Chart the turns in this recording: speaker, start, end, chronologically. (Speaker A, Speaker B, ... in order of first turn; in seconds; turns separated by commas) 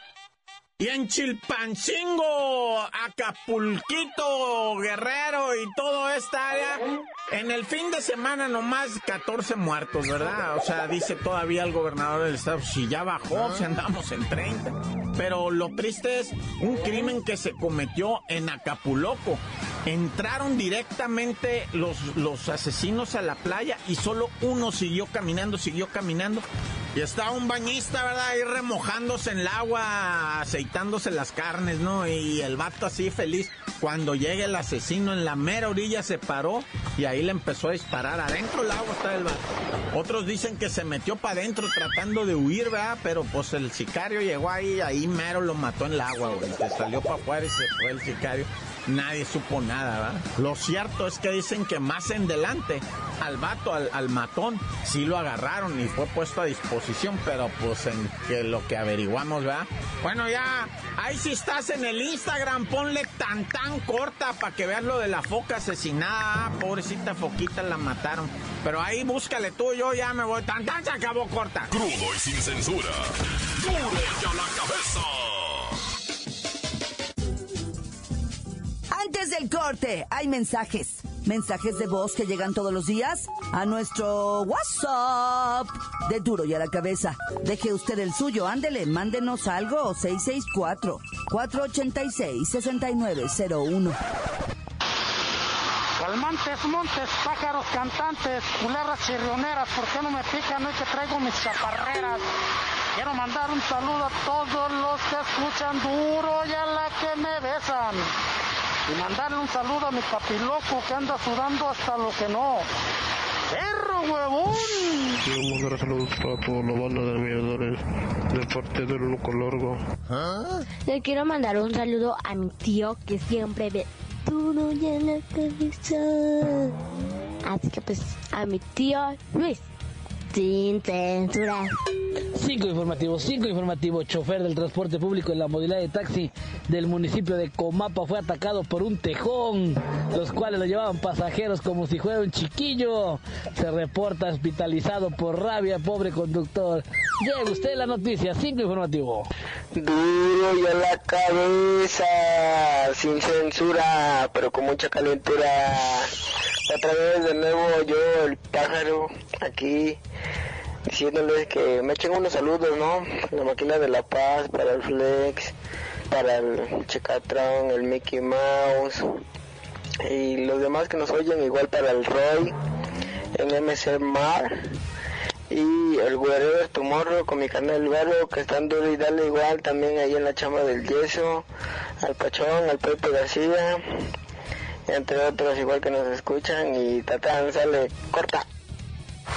Speaker A: 0.8-71.7, Speaker B: 71.7-75.8, Speaker C: 78.9-94.0, Speaker D: 96.0-102.2, Speaker D: 103.0-108.1, Speaker D: 108.9-112.7, Speaker D: 113.5-115.2, Speaker E: 115.2-120.3, Speaker F: 120.8-126.7, Speaker F: 127.4-129.6, Speaker F: 130.3-131.7, Speaker G: 132.4-149.3, Speaker H: 149.7-156.1, Speaker H: 156.7-160.0, Speaker H: 160.9-165.6, Speaker H: 166.1-169.2, Speaker H: 170.0-172.6, Speaker H: 173.3-174.7, Speaker H: 175.5-181.5, Speaker H: 182.0-183.8, Speaker H: 184.9-188.5